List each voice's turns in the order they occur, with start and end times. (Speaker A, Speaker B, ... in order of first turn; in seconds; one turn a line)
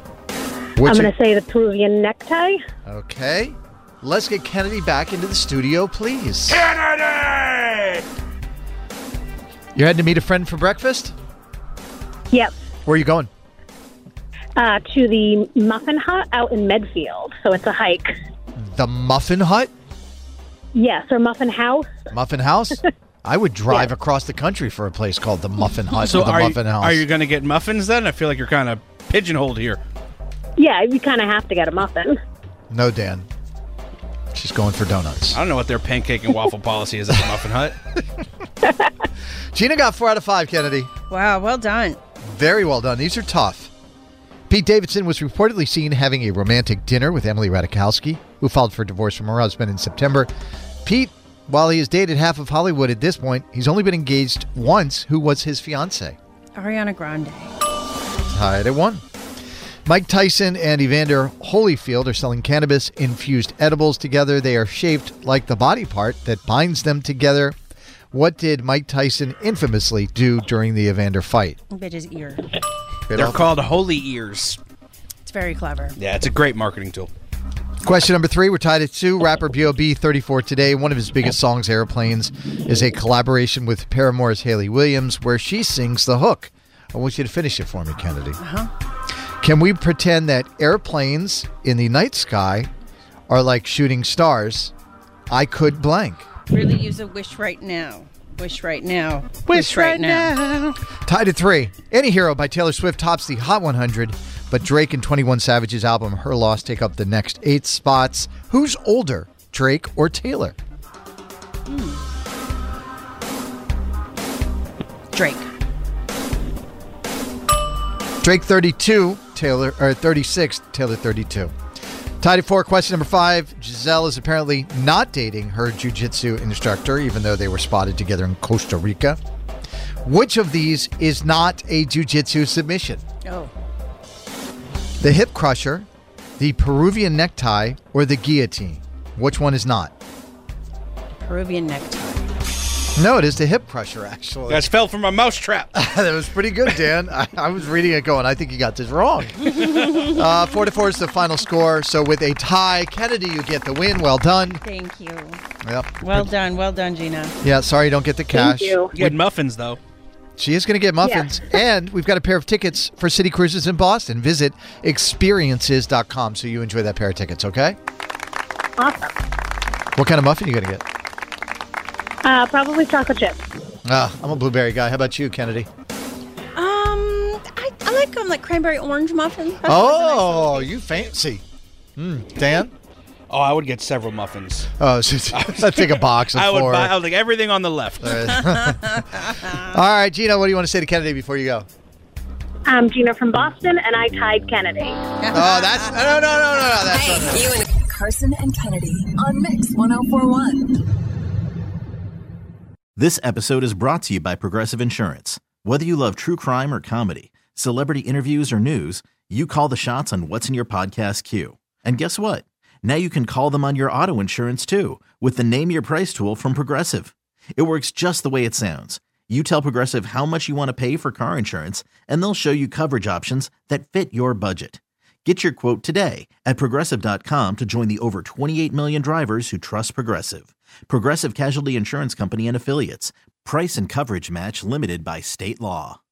Speaker A: 0.8-1.1
Speaker B: 0.8-2.6
Speaker A: 2.9-6.7
Speaker A: 9.7-11.1
Speaker A: 12.8-13.3
Speaker B: 14.6-18.1
Speaker A: 18.6-19.7
Speaker B: 20.7-22.1
Speaker A: 22.1-27.0
Speaker C: 25.9-29.8
Speaker B: 30.6-32.2
Speaker A: 32.7-33.3
Speaker A: 34.3-35.4
Speaker C: 35.3-37.8
Speaker A: 39.5-40.9
Speaker D: 41.1-42.0
Speaker A: 42.2-43.7
Speaker A: 44.5-50.3
Speaker A: 50.8-56.2
Speaker D: 56.5-57.5
Speaker A: 58.3-59.0
Speaker A: 59.8-67.5
Speaker A: 68.1-71.6
Speaker D: 71.7-72.4
Speaker A: 73.1-73.4
Speaker C: 73.1-74.6
Speaker D: 75.2-76.0
Speaker C: 76.0-77.1
Speaker A: 77.8-88.4
Speaker D: 88.4-88.7
Speaker A: 89.4-92.7
Speaker A: 93.3-94.7
Speaker A: 95.3-96.2
Speaker D: 96.5-100.3
Speaker A: 99.5-100.5
Speaker A: 101.0-110.5
Speaker D: 111.7-112.1
Speaker D: 115.1-115.5
Speaker A: 118.2-121.5
Speaker A: 122.2-129.2
Speaker A: 130.0-133.0
Speaker D: 133.2-133.5
Speaker A: 135.0-135.9
Speaker A: 136.4-139.9
Speaker D: 141.2-142.3
Speaker A: 142.9-144.7
Speaker C: 144.5-145.7
Speaker A: 145.7-154.6
Speaker D: 149.4-150.2
Speaker D: 154.6-155.4
Speaker A: 155.6-156.3
Speaker D: 156.0-157.3
Speaker A: 157.4-159.1
Speaker B: 158.3-158.9
Speaker C: 158.9-159.8
Speaker A: 160.4-167.8
Speaker B: 161.0-161.6
Speaker B: 168.8-169.1
Speaker A: 169.9-170.8
Speaker B: 172.2-173.4
Speaker A: 173.8-175.7
Speaker D: 176.6-180.8
Speaker A: 179.6-181.4
Speaker A: 182.0-182.7
Speaker C: 183.3-184.7
Speaker A: 184.8-186.9
Speaker C: 185.3-188.3
Speaker A: 188.0-189.0
Speaker D: 188.7-189.6
Speaker A: 189.6-191.7
Speaker B: 192.7-195.1
Speaker A: 195.3-197.6
Speaker E: 197.7-200.7
Speaker F: 202.9-236.0